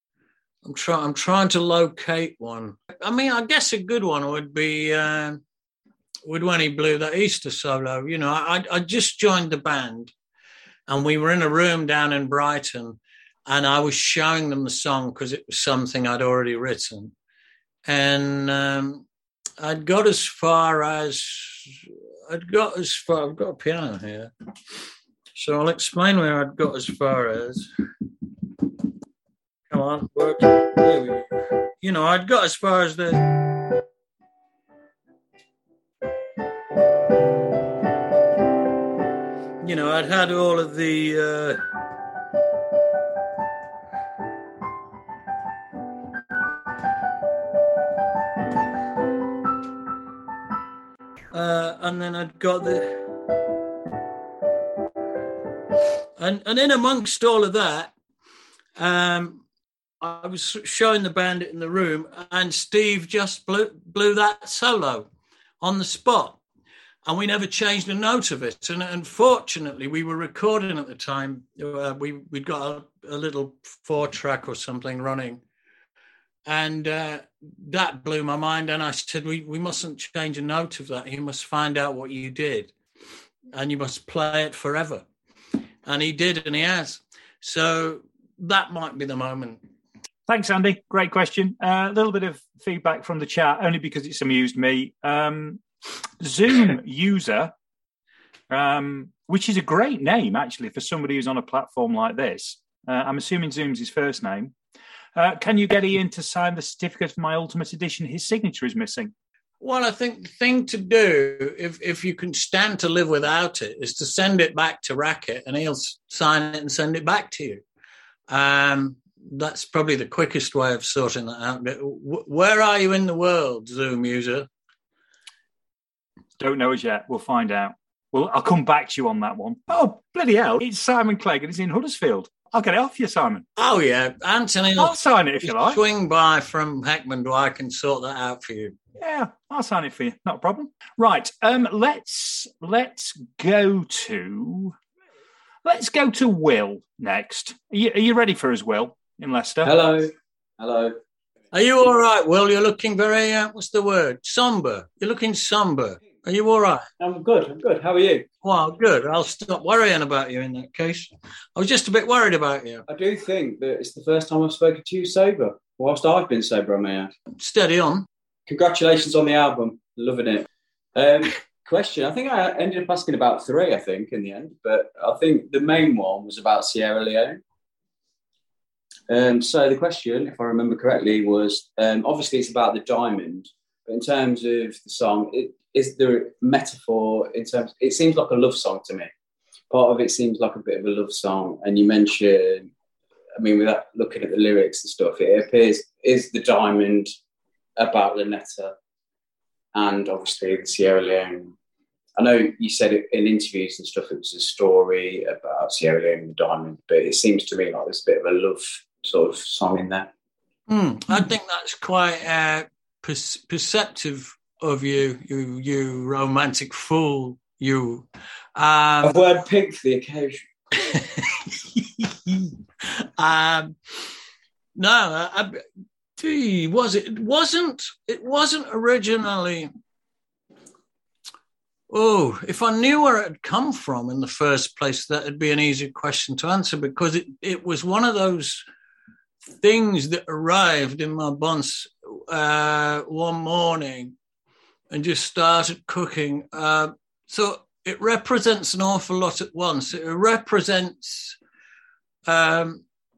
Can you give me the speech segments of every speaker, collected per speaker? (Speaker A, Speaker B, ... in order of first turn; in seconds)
Speaker A: 0.6-5.4, 6.3-10.1, 10.9-17.1, 17.9-19.1, 19.6-24.3, 25.4-27.7, 29.7-31.3, 31.8-33.8, 39.6-41.6, 51.3-53.1, 56.2-57.9, 58.8-59.4, 60.0-65.1, 65.6-66.4, 67.0-75.4, 76.5-82.7, 83.5-85.0, 85.9-89.6, 109.6-117.6, 118.3-124.5, 133.6-138.8, 151.5-156.9, 158.4-162.8, 167.4-168.1, 210.7-219.2, 220.9-224.1, 224.8-225.6, 226.2-229.7, 231.9-238.6, 239.5-244.2, 244.9-251.4, 252.3-252.8
Speaker B: 90.3-95.6, 96.2-97.5, 98.5-104.5, 105.2-109.1, 126.4-133.4, 134.8-135.8, 139.0-144.8, 145.7-149.7
Speaker C: 149.6-151.0, 157.0-158.3, 162.9-167.1, 168.5-177.4, 179.1-189.1, 189.7-192.7, 193.4-197.1, 197.8-198.7, 199.8-201.5, 202.2-210.1, 219.0-220.4